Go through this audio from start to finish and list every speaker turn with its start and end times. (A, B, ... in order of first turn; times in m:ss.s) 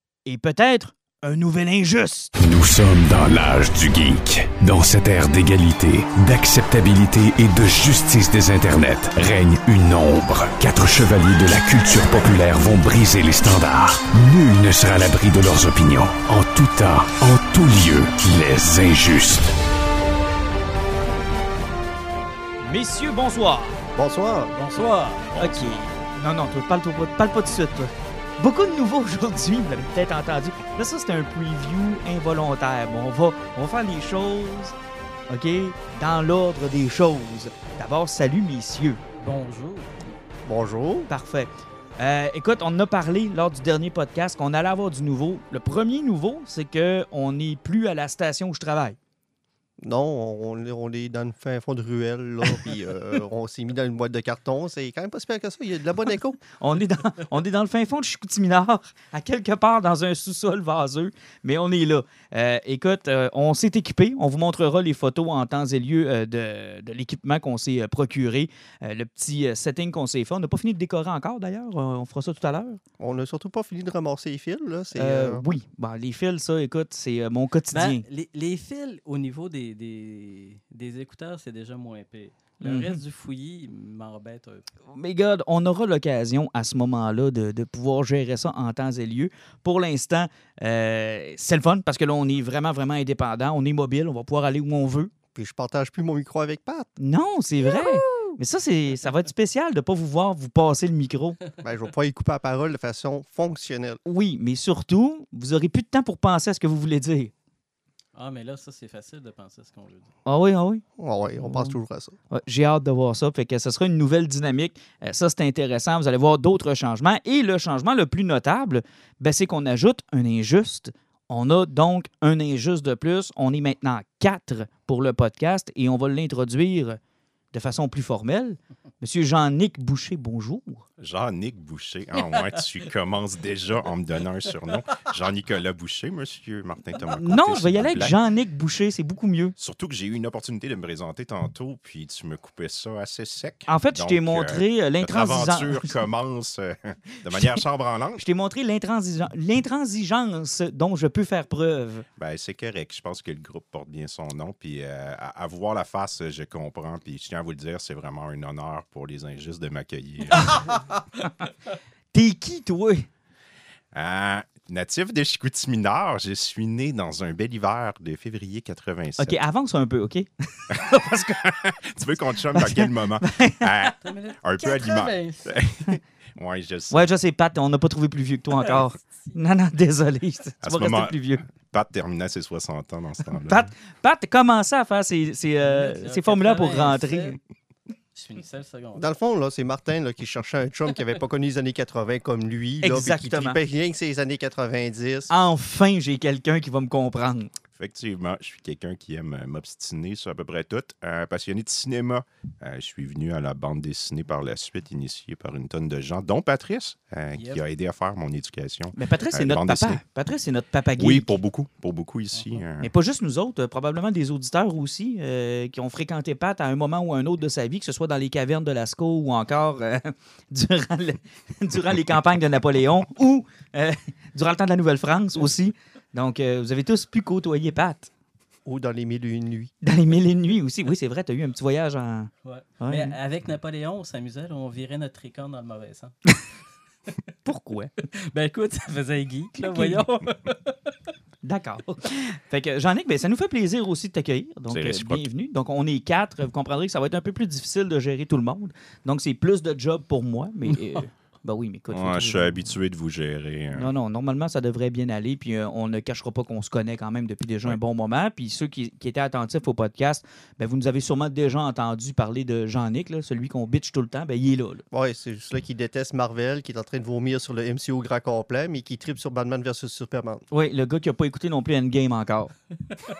0:00.2-0:02.3 A
0:02.4-0:19.5 B
0:22.6-0:23.8 A
0:24.0-0:24.5 C
0:24.5-0:25.3 D
0:25.3-0:25.8 E
0:25.4-0:34.8 A
0:35.3-0:39.0 A
0:39.2-0:40.2 D
0:40.4-0:41.1 C
0:41.1-0:49.0 A
0:49.8-0:56.4 C
0:56.5-1:12.8 A
1:13.0-1:15.5 C
1:14.9-1:18.0 A
1:17.7-1:24.7 D
1:22.6-1:23.0 A
1:24.9-1:35.1 A
1:35.3-1:36.9 C
1:37.0-1:41.4 A
1:37.6-1:38.2 C
1:41.6-1:44.0 C
1:44.0-1:47.3 A
1:48.1-1:50.1 D
1:50.2-1:50.8 A
1:51.0-1:52.2 C
1:51.4-1:51.8 A
1:52.3-2:07.0 A
2:07.5-2:10.8 A
2:11.0-2:18.1 E
2:17.2-2:19.5 A
2:19.6-2:28.2 E
2:23.7-2:25.9 A
2:28.2-2:32.0 A
2:32.2-2:40.7 E
2:40.3-2:40.7 A
2:42.1-2:43.1 A
2:43.9-2:49.4 E
2:49.2-2:51.5 A
2:51.4-2:57.0 E
2:52.5-2:53.9 A
2:54.0-2:55.5 D
2:56.9-3:01.4 A
3:00.6-3:03.6 E
3:03.4-3:07.4 A
3:05.6-3:07.4 D
3:08.1-3:09.0 D
3:09.0-3:15.3 C
3:12.8-3:13.6 A
3:15.3-3:17.5 A
3:17.8-3:30.0 E
3:27.3-3:27.6 D
3:28.9-3:31.3 A
3:31.0-3:32.9 E
3:32.3-3:32.6 D
3:32.8-3:48.1 A
3:48.6-3:49.7 C
3:49.8-3:53.2 A
3:52.4-3:56.3 D
3:57.4-3:57.9 A
3:58.1-4:00.9 D
3:59.6-4:00.0 A
4:01.4-4:12.6 A
4:04.7-4:05.2 E
4:11.9-4:13.9 E
4:13.7-4:24.8 A
4:24.9-4:30.4 C
4:30.5-4:32.5 A